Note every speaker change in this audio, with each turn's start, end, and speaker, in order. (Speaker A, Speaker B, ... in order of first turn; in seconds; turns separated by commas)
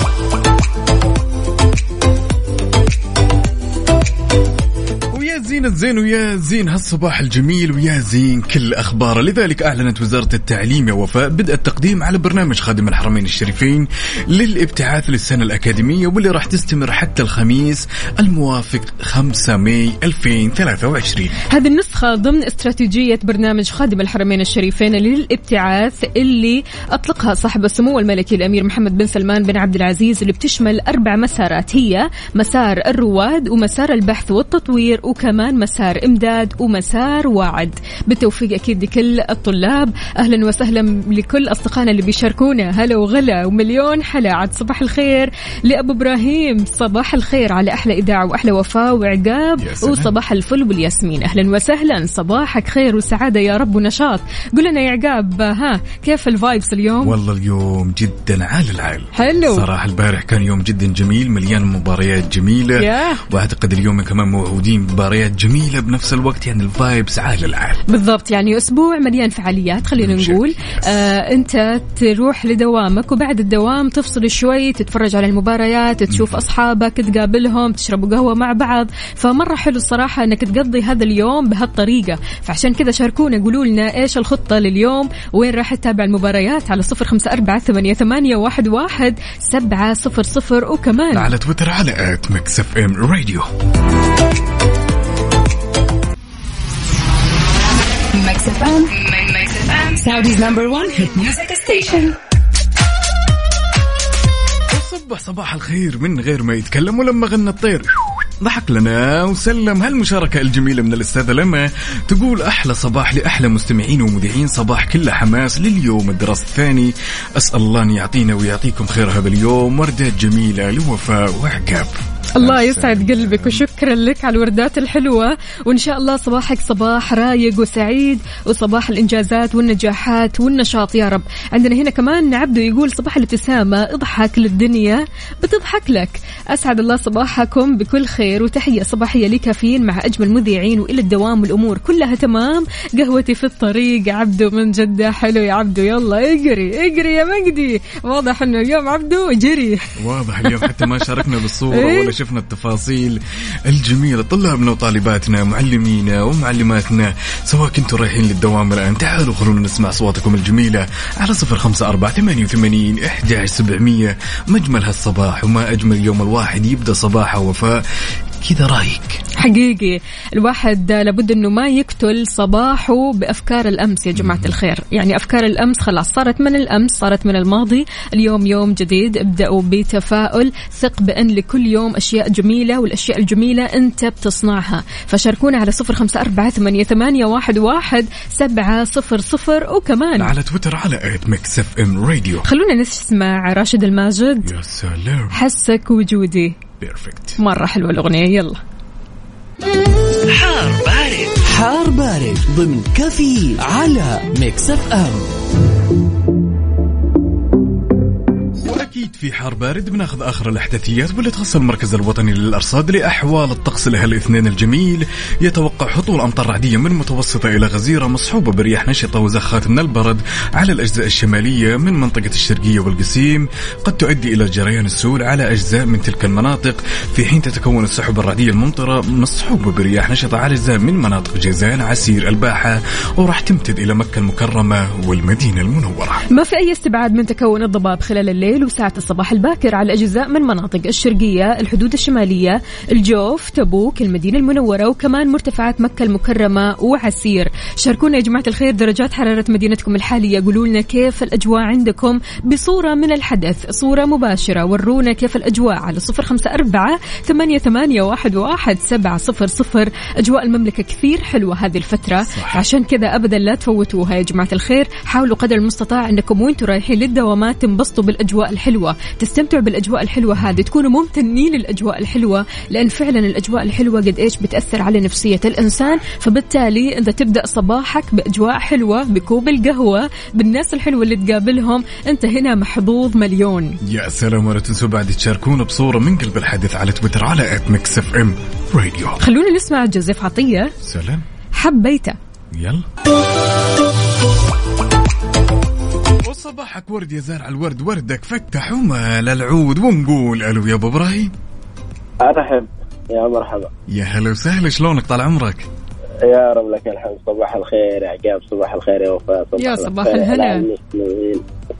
Speaker A: 5.1-21.4, Speaker B: 21.5-57.2, Speaker A: 49.6-50.1, Speaker A: 57.0-67.8, Speaker B: 59.2-59.6, Speaker B: 62.8-63.2, Speaker B: 67.9-91.3, Speaker A: 70.0-71.0, Speaker A: 76.1-76.4, Speaker A: 91.1-93.5, Speaker C: 98.1-102.2, Speaker A: 104.7-107.9, Speaker A: 108.4-123.7, Speaker B: 122.4-149.9, Speaker A: 150.0-167.8, Speaker B: 150.5-151.1, Speaker B: 151.7-152.1, Speaker A: 168.4-169.2, Speaker B: 169.4-190.3, Speaker A: 174.1-174.6, Speaker A: 190.2-192.4, Speaker B: 192.4-194.5, Speaker A: 194.4-195.4, Speaker B: 195.3-196.6, Speaker A: 196.8-197.4, Speaker B: 197.4-198.6, Speaker D: 201.4-205.2, Speaker A: 208.6-236.2, Speaker B: 236.3-283.8, Speaker A: 262.2-262.6, Speaker A: 283.8-289.2, Speaker B: 289.2-290.7, Speaker A: 290.8-291.2, Speaker B: 291.6-292.2, Speaker A: 292.5-292.9, Speaker A: 296.2-301.3, Speaker E: 302.2-303.7, Speaker A: 303.9-305.7, Speaker E: 306.2-311.4, Speaker B: 309.6-310.6